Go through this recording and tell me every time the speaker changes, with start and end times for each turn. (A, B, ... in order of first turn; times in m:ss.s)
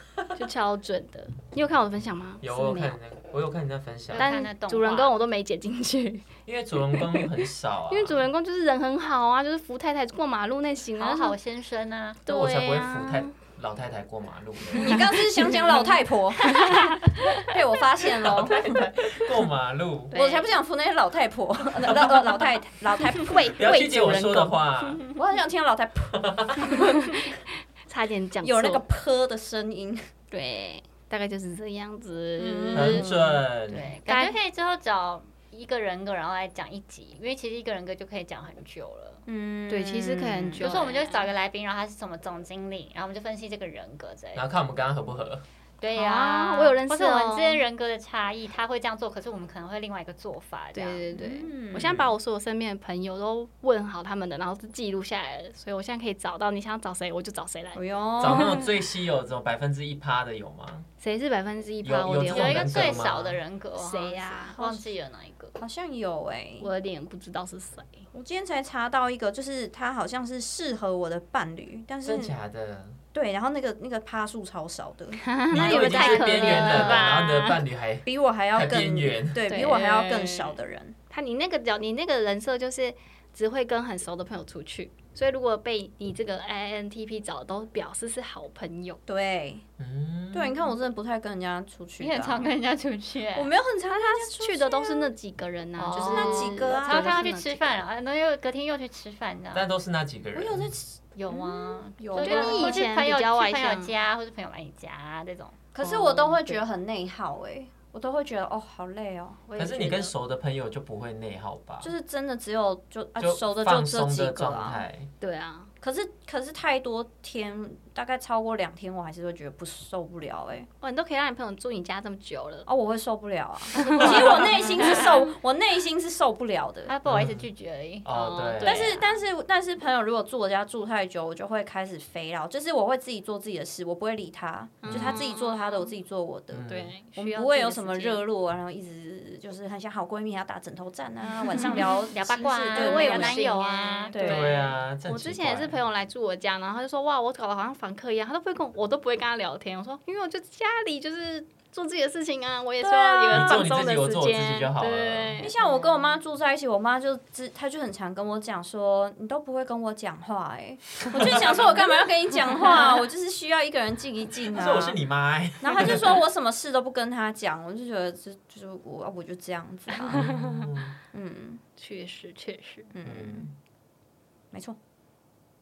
0:00.3-0:03.0 A
0:02.4-0:04.3 B
0:04.1-0:05.2 C
0:04.2-0:06.3 A
0:06.5-0:08.2 B
0:06.9-0:07.3 A
0:07.9-0:11.4 A
0:11.0-0:12.2 C
0:12.3-0:13.3 A
0:12.3-0:15.1 B
0:14.7-0:18.9 D
0:16.4-0:17.4 A
0:18.2-0:20.2 B
0:20.1-0:20.5 A
0:20.1-0:23.5 D
0:23.2-0:24.6 A
0:23.6-0:25.1 B
0:25.1-0:27.2 D
0:26.1-0:26.7 B
0:26.9-0:27.2 A
0:27.9-0:28.8 A
0:28.4-0:30.1 D
0:30.3-0:33.1 A
0:32.4-0:33.4 D
0:32.7-0:33.9 B
0:33.7-0:39.2 C
0:34.1-0:34.4 A
0:39.3-0:40.7 D
0:39.7-0:41.3 A
0:40.6-0:44.4 C
0:44.4-0:45.4 B
0:45.8-0:51.1 C
0:45.9-0:47.7 A
0:50.7-0:58.6 A
0:51.1-0:52.0 D
0:51.8-0:52.1 B
0:57.8-0:58.6 D
0:58.2-1:00.9 B
1:01.0-1:03.0 A
1:01.8-1:03.4 B
1:02.3-1:05.6 C
1:03.8-1:04.8 A
1:05.6-1:06.7 D
1:06.6-1:08.0 A
1:08.1-1:12.4 D
1:12.0-1:13.0 B
1:13.1-1:16.7 D
1:15.2-1:17.6 A
1:15.5-1:19.5 B
1:16.2-1:17.2 C
1:18.1-1:21.0 D
1:19.5-1:20.6 A
1:21.1-1:29.0 A
1:29.1-1:29.6 D
1:29.8-1:30.7 B
1:30.3-1:32.5 D
1:32.0-1:33.5 C
1:33.4-1:35.1 D
1:33.9-1:37.8 A
1:35.8-1:39.6 C
1:35.9-1:37.2 D
1:39.5-1:40.8 B
1:40.3-1:42.8 D
1:41.2-1:46.6 C
1:42.2-1:43.9 A
1:45.8-1:49.4 D
1:49.5-1:50.1 A
1:49.6-1:51.9 B
1:51.8-1:54.8 D
1:53.2-1:55.1 B
1:55.2-1:55.7 A
1:55.8-2:00.7 D
2:00.8-2:02.7 A
2:02.7-2:06.9 D
2:03.7-2:05.0 A
2:04.0-2:05.3 C
2:06.9-2:08.1 C
2:07.1-2:07.4 B
2:08.0-2:09.0 B
2:08.1-2:09.1 A
2:08.6-2:23.5 D
2:14.8-2:15.9 A
2:14.9-2:15.2 B
2:16.5-2:17.0 B
2:16.7-2:18.2 A
2:21.6-2:24.1 C
2:22.7-2:35.5 A
2:24.1-2:24.6 D
2:24.2-2:25.8 B
2:32.8-2:33.7 D
2:33.3-2:35.5 B
2:35.4-2:45.0 D
2:41.2-2:41.5 B
2:44.5-2:46.2 B
2:45.6-2:50.5 D
2:50.1-2:51.0 B
2:51.1-2:51.6 D
2:51.8-2:52.9 A
2:52.9-2:53.5 D
2:53.0-2:53.5 B
2:54.5-2:54.8 D